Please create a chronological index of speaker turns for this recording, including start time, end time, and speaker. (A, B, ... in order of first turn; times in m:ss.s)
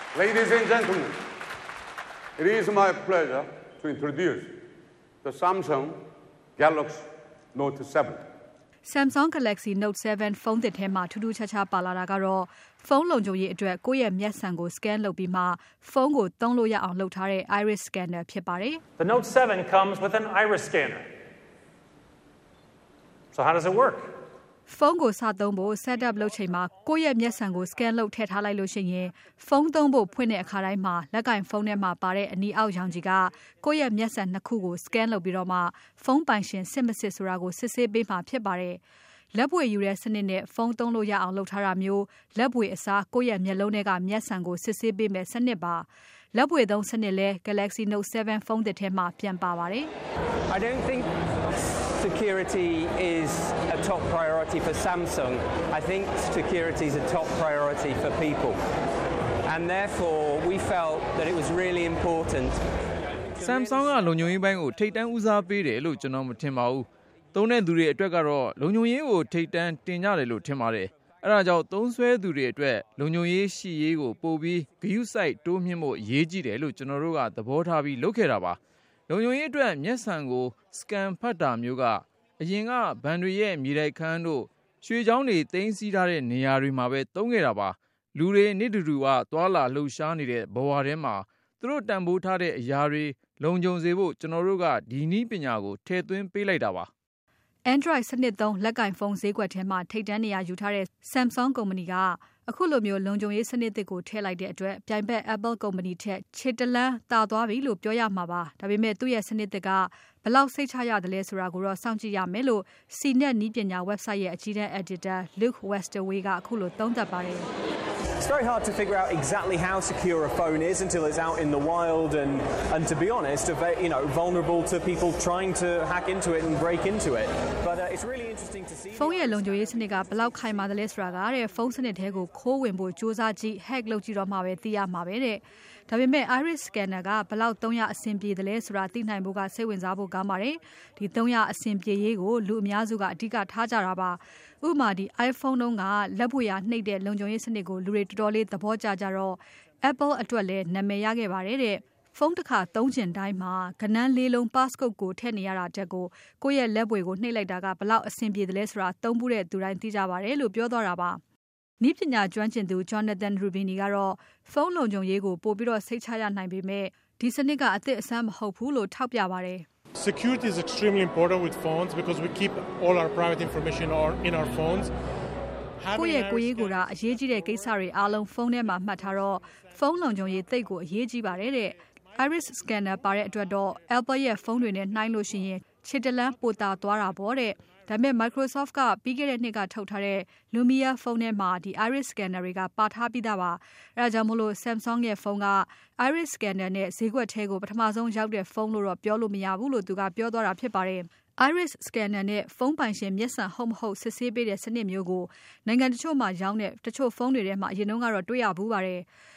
0:00.2-0:01.2 A
0:02.4-0:04.6 A
0:05.2-0:06.0 A
0:06.6-0:08.2 A
0:08.8-0:18.8 B
0:19.0-0:21.0 C
0:23.3-0:24.1 C
0:24.7-0:38.8 B
0:39.3-0:49.9 B
0:50.5-0:51.1 D
0:52.0-0:58.6 D
0:59.4-1:02.6 D
1:03.4-1:18.6 E
1:19.1-1:36.9 E
1:37.7-1:57.5 B
1:58.2-2:09.6 F
2:09.0-2:41.2 B
2:41.8-2:49.7 B
2:50.0-2:54.9 G
2:55.8-2:56.9 G
2:55.9-3:29.1 B